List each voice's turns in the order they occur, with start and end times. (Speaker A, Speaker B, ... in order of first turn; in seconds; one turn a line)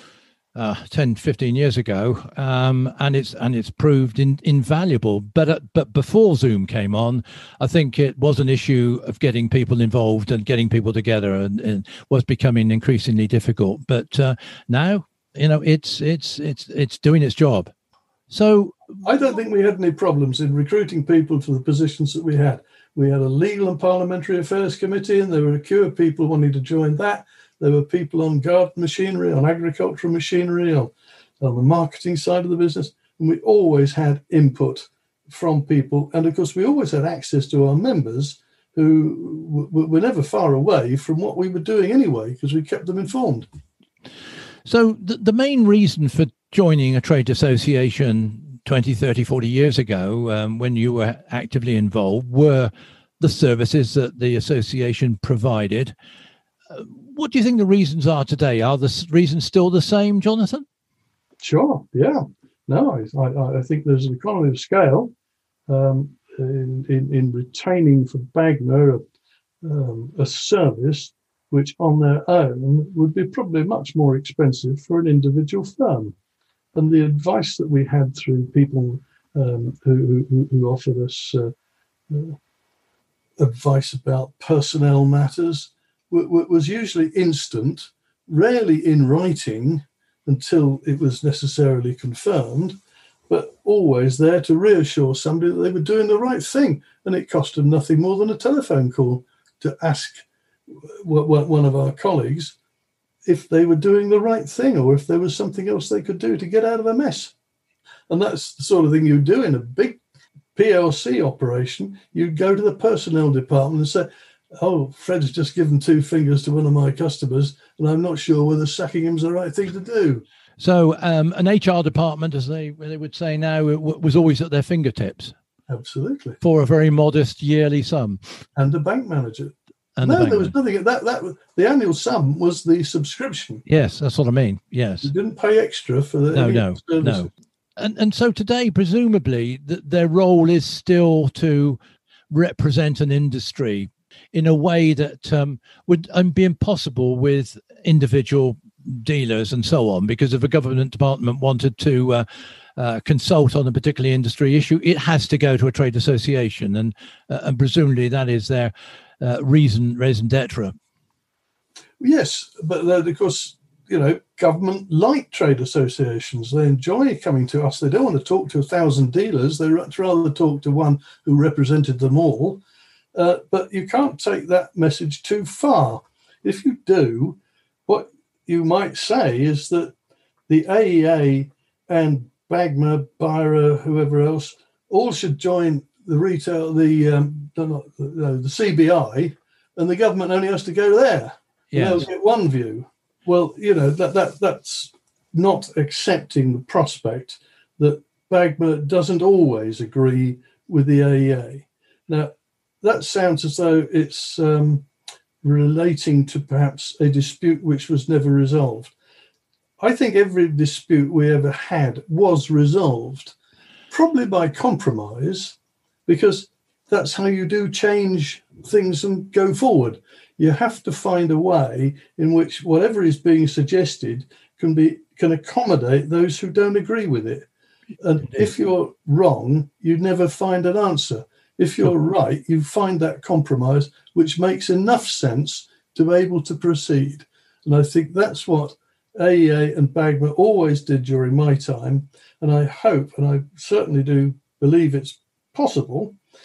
Speaker A: 0.6-17.7
Speaker A: 18.3-18.8
Speaker B: 19.0-43.5
Speaker A: 44.7-55.9
Speaker A: 56.7-60.7
Speaker B: 61.4-65.1
Speaker B: 65.7-69.1
Speaker B: 69.6-76.2
Speaker B: 76.8-81.5
Speaker B: 82.1-82.4
Speaker B: 83.4-92.8
Speaker B: 93.3-100.3
Speaker B: 100.9-102.6
Speaker B: 103.2-107.3
Speaker B: 108.1-110.0
Speaker B: 110.5-120.2
Speaker A: 120.6-125.4
Speaker B: 125.7-126.4
Speaker A: 126.4-128.2
Speaker B: 128.6-133.6
Speaker A: 130.0-130.5
Speaker A: 133.7-135.1
Speaker B: 135.0-137.3
Speaker A: 136.3-152.3
Speaker A: 152.8-160.8
Speaker B: 162.0-172.6
Speaker B: 173.2-179.9
Speaker B: 180.5-204.9
Speaker A: 191.7-192.1
Speaker B: 205.4-208.9
Speaker B: 209.8-213.4
Speaker B: 213.9-227.5
Speaker B: 228.0-246.2